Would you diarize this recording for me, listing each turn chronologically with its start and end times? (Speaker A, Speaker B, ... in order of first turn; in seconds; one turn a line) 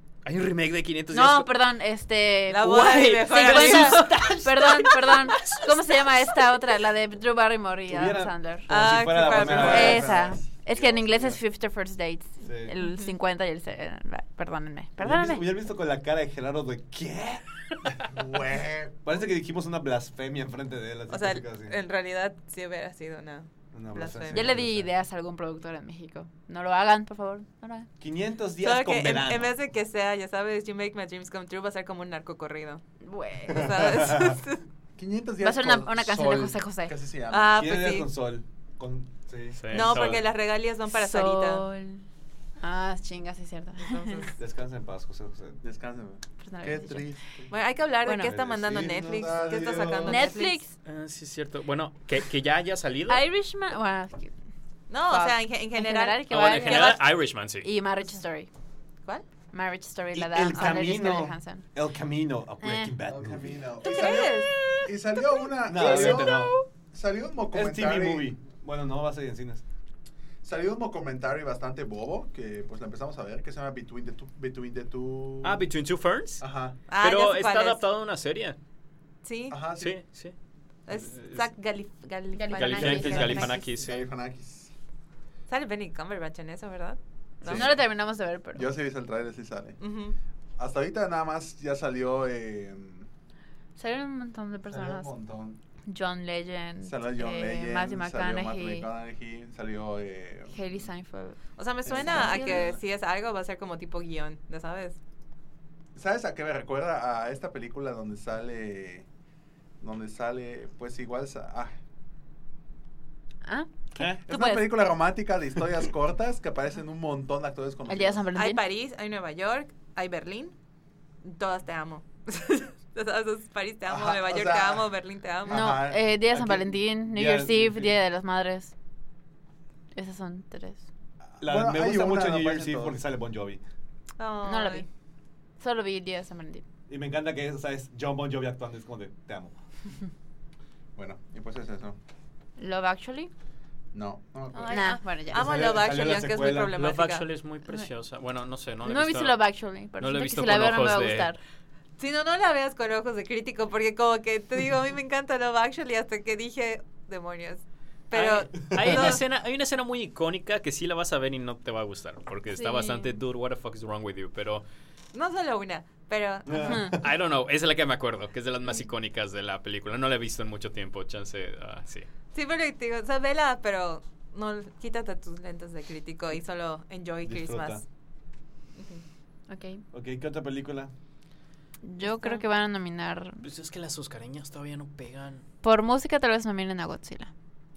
Speaker A: 0.2-1.5
Speaker B: 1.1-8.7
Speaker C: 2.5-4.4
Speaker A: 2.6-6.3
Speaker D: 7.9-11.4
Speaker C: 8.7-10.1
Speaker E: 9.3-10.4
Speaker B: 9.5-15.4
Speaker D: 12.4-12.7
Speaker D: 15.0-18.1
Speaker E: 18.0-18.9
Speaker D: 19.0-21.8
Speaker C: 21.1-24.6
Speaker D: 23.7-24.9
Speaker B: 24.3-27.9
Speaker D: 28.0-29.5
Speaker C: 28.6-32.8
Speaker B: 33.0-33.7
Speaker C: 33.5-34.6
Speaker D: 33.6-34.3
Speaker E: 35.0-37.7
Speaker B: 35.4-36.9
Speaker C: 37.3-38.1
Speaker D: 37.5-40.2
Speaker A: 39.6-40.2
Speaker C: 39.7-41.6
Speaker B: 40.9-42.0
Speaker B: 42.6-44.3
Speaker C: 43.8-44.3
Speaker D: 44.4-45.6
Speaker E: 45.6-47.5
Speaker B: 46.4-47.1
Speaker C: 47.5-50.6
Speaker B: 48.0-48.3
Speaker D: 48.2-50.3
Speaker E: 48.2-50.1
Speaker B: 50.0-50.7
Speaker A: 50.8-53.2
Speaker B: 53.1-54.3
Speaker C: 54.9-57.0
Speaker B: 55.1-58.5
Speaker A: 56.3-57.7
Speaker B: 59.5-61.6
Speaker D: 60.1-63.6
Speaker C: 60.5-60.9
Speaker B: 62.6-62.9
Speaker E: 63.1-68.3
Speaker C: 63.8-64.9
Speaker D: 65.7-66.5
Speaker C: 65.8-66.5
Speaker D: 67.5-69.6
Speaker E: 70.4-75.6
Speaker A: 75.4-76.4
Speaker E: 76.4-76.8
Speaker C: 76.9-77.8
Speaker A: 77.0-78.6
Speaker C: 79.2-79.6
Speaker E: 79.5-80.0
Speaker A: 79.7-80.3
Speaker C: 80.9-83.7
Speaker A: 80.9-81.5
Speaker B: 82.3-83.6
Speaker A: 82.5-84.0
Speaker E: 83.0-84.7
Speaker C: 85.5-87.7
Speaker E: 87.4-87.8
Speaker B: 87.5-88.7
Speaker E: 88.5-89.8
Speaker C: 89.8-90.2
Speaker E: 90.6-93.1
Speaker B: 93.8-95.1
Speaker E: 94.7-95.6
Speaker B: 95.9-98.9
Speaker E: 96.8-100.6
Speaker B: 100.5-102.7
Speaker C: 101.5-105.0
Speaker E: 101.8-102.8
Speaker E: 105.9-109.1
Speaker E: 109.8-111.7
Speaker B: 113.4-114.7
Speaker E: 114.0-118.2
Speaker B: 117.9-118.6
Speaker C: 118.3-120.5
Speaker C: 121.2-125.7
Speaker E: 123.9-124.9
Speaker E: 125.4-126.1
Speaker B: 125.5-128.7
Speaker D: 126.3-128.0
Speaker B: 129.9-130.8
Speaker E: 131.3-133.0
Speaker D: 131.4-133.6
Speaker C: 134.2-134.8
Speaker B: 134.4-134.8
Speaker B: 135.6-136.6
Speaker D: 136.9-139.5
Speaker E: 140.9-142.0
Speaker B: 142.6-143.3
Speaker E: 143.9-144.8
Speaker C: 144.5-147.2
Speaker B: 144.7-145.5
Speaker D: 145.3-146.8
Speaker A: 146.7-149.4
Speaker B: 148.8-151.4
Speaker A: 150.0-151.3
Speaker C: 152.0-159.2
Speaker A: 158.1-164.6
Speaker D: 158.6-159.0
Speaker B: 162.5-163.2
Speaker C: 165.1-166.9
Speaker D: 166.4-167.1
Speaker B: 166.6-166.9
Speaker A: 167.0-172.1
Speaker C: 172.3-177.8
Speaker D: 177.2-177.8
Speaker B: 179.5-179.8
Speaker D: 179.9-180.9
Speaker B: 181.8-183.4
Speaker C: 182.1-182.4
Speaker A: 183.4-185.4
Speaker B: 185.6-187.3